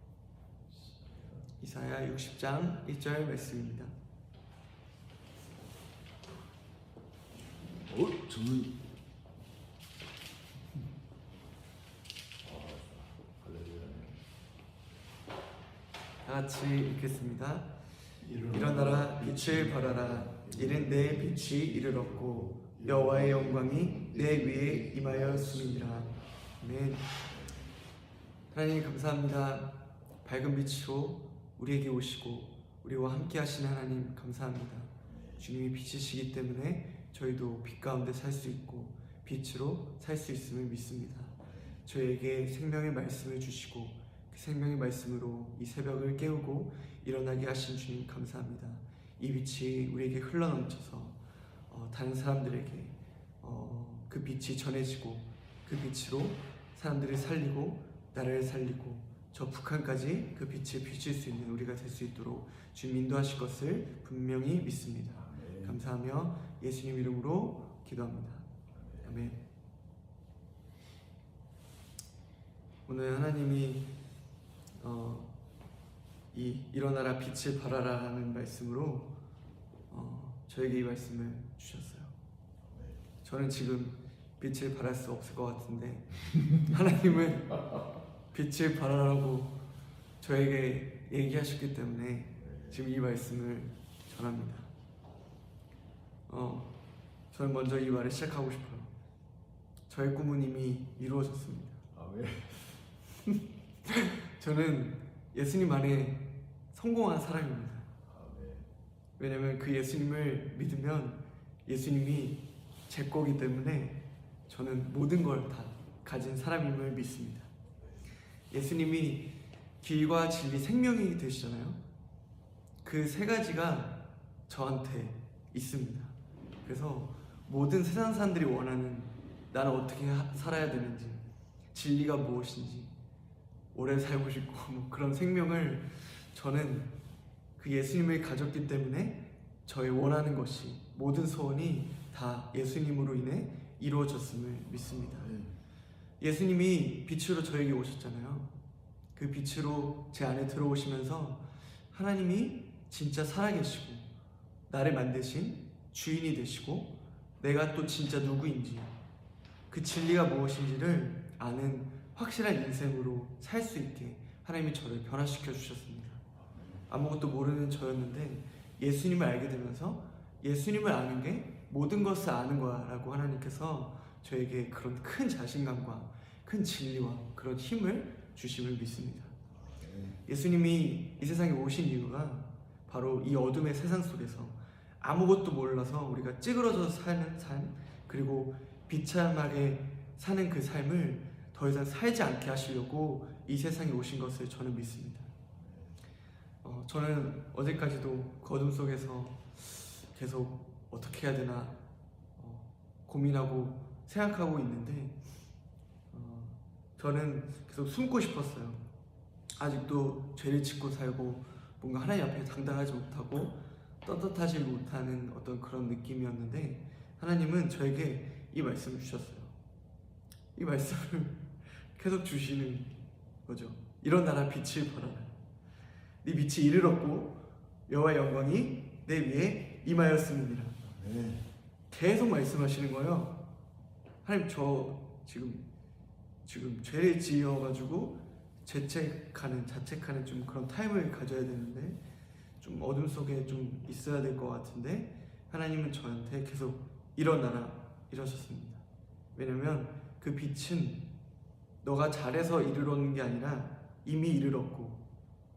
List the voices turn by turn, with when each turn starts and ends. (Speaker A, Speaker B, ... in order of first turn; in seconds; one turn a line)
Speaker A: 1.6-3.9
Speaker B: 7.9-8.8
Speaker B: 12.4-14.2
Speaker A: 16.2-17.7
Speaker A: 18.4-27.1
Speaker B: 19.7-20.4
Speaker A: 28.5-51.2
Speaker A: 51.7-68.5
Speaker B: 65.3-65.6
Speaker A: 69.0-69.4
Speaker A: 72.9-73.9
Speaker A: 74.8-75.3
Speaker A: 76.3-79.1
Speaker A: 79.9-82.1
Speaker B: 82.7-83.0
Speaker A: 83.2-87.7
Speaker A: 88.3-89.6
Speaker A: 90.2-94.7
Speaker B: 92.5-92.8
Speaker A: 96.3-96.7
Speaker A: 97.3-98.9
Speaker A: 99.9-101.8
Speaker B: 102.0-102.8
Speaker A: 103.9-107.9
Speaker B: 108.1-108.7
Speaker A: 109.2-117.5
Speaker A: 118.5-121.8
Speaker A: 122.8-131.2
Speaker A: 131.7-132.9
Speaker A: 133.7-136.9
Speaker A: 137.6-145.4
Speaker A: 146.2-148.5
Speaker A: 149.2-154.1
Speaker A: 154.7-158.9
Speaker A: 159.7-166.2
Speaker A: 166.9-179.3
Speaker B: 179.7-180.2
Speaker A: 180.3-195.3
Speaker A: 196.6-201.8
Speaker A: 202.4-205.2
Speaker A: 206.1-208.8
Speaker A: 209.6-219.5
Speaker A: 220.6-225.3
Speaker A: 226.2-230.8
Speaker B: 230.9-231.4
Speaker A: 231.9-233.4
Speaker A: 234.2-235.7
Speaker A: 236.4-242.0
Speaker A: 242.6-248.8
Speaker A: 249.3-251.1
Speaker A: 251.8-255.0